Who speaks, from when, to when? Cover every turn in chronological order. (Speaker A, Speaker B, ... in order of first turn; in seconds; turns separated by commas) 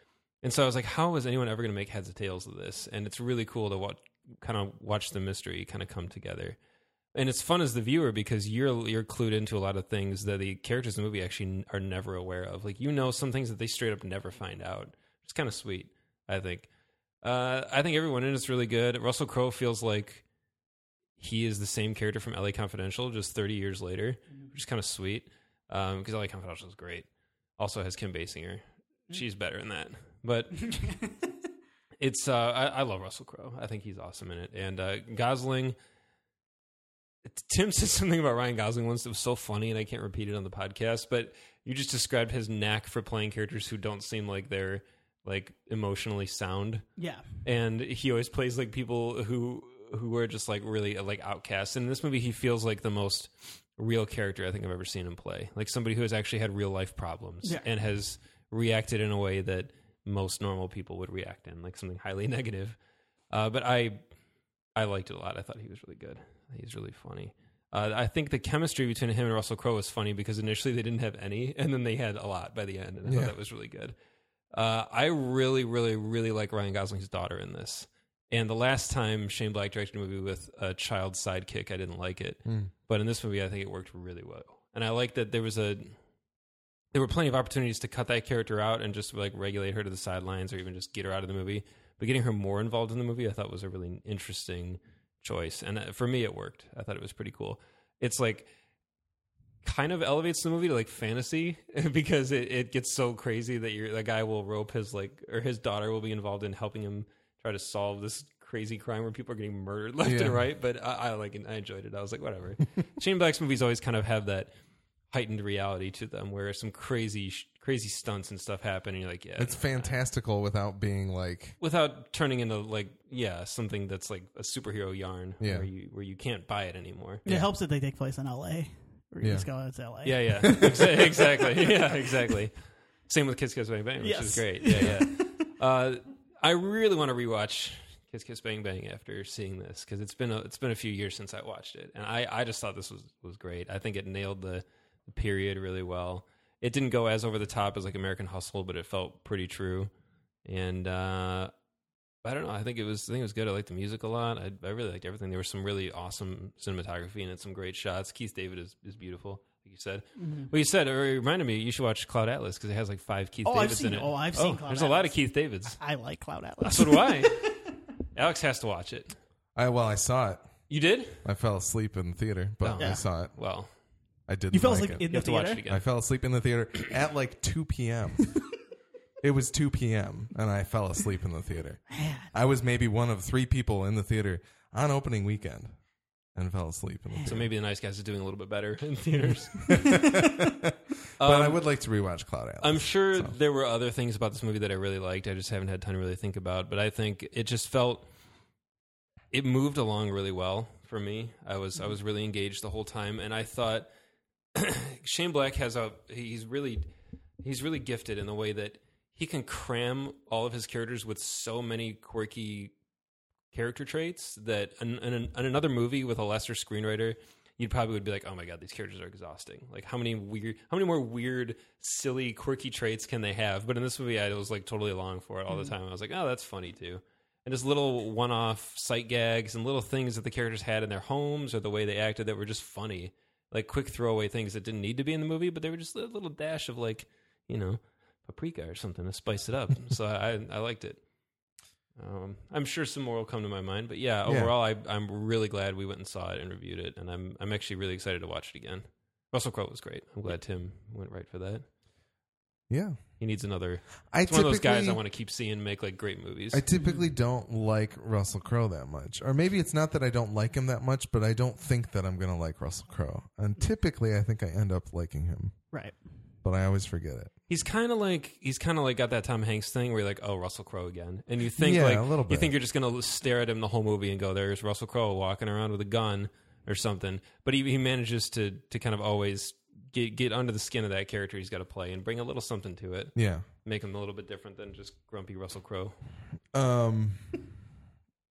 Speaker A: 0.4-6.6, Speaker A: 7.1-16.7, Speaker A: 17.2-20.2, Speaker A: 21.2-27.1, Speaker A: 27.6-31.0, Speaker A: 32.0-35.7, Speaker A: 37.2-46.8, Speaker B: 47.0-47.2, Speaker A: 47.4-62.8, Speaker A: 63.3-64.0, Speaker A: 64.8-73.9, Speaker C: 73.0-73.3, Speaker A: 74.5-85.9, Speaker C: 82.5-82.7, Speaker A: 86.9-98.5, Speaker A: 99.6-114.5, Speaker C: 110.0-110.4, Speaker A: 115.1-119.9, Speaker C: 119.4-121.6, Speaker A: 121.6-127.2, Speaker C: 125.4-125.7, Speaker B: 127.2-130.7, Speaker A: 130.0-132.6, Speaker A: 133.1-149.9, Speaker B: 134.0-135.4, Speaker A: 150.4-151.5, Speaker A: 152.2-165.8, Speaker B: 160.2-160.5, Speaker B: 163.4-165.2, Speaker B: 165.8-167.6, Speaker A: 166.6-167.6, Speaker A: 168.1-169.2, Speaker C: 169.5-170.5, Speaker A: 170.7-171.2, Speaker C: 171.2-173.3, Speaker A: 172.6-173.7, Speaker C: 174.3-175.1, Speaker B: 174.5-175.6, Speaker A: 175.1-175.8, Speaker C: 175.7-178.3, Speaker C: 179.2-185.7, Speaker B: 181.9-182.3, Speaker C: 186.3-187.5, Speaker B: 187.1-187.4, Speaker A: 187.2-190.0, Speaker C: 189.6-193.3, Speaker A: 191.2-191.6, Speaker A: 192.6-198.1, Speaker A: 199.3-203.9, Speaker A: 204.5-206.9, Speaker A: 207.4-212.7, Speaker A: 213.5-241.0, Speaker A: 242.0-251.6, Speaker C: 244.2-244.5, Speaker C: 252.7-253.0, Speaker A: 253.2-256.6, Speaker C: 254.1-255.0, Speaker C: 256.5-265.6, Speaker B: 256.7-257.1, Speaker C: 266.4-267.3, Speaker A: 267.5-283.1, Speaker C: 271.6-272.5, Speaker C: 283.1-283.4, Speaker A: 283.6-285.9, Speaker C: 286.5-287.3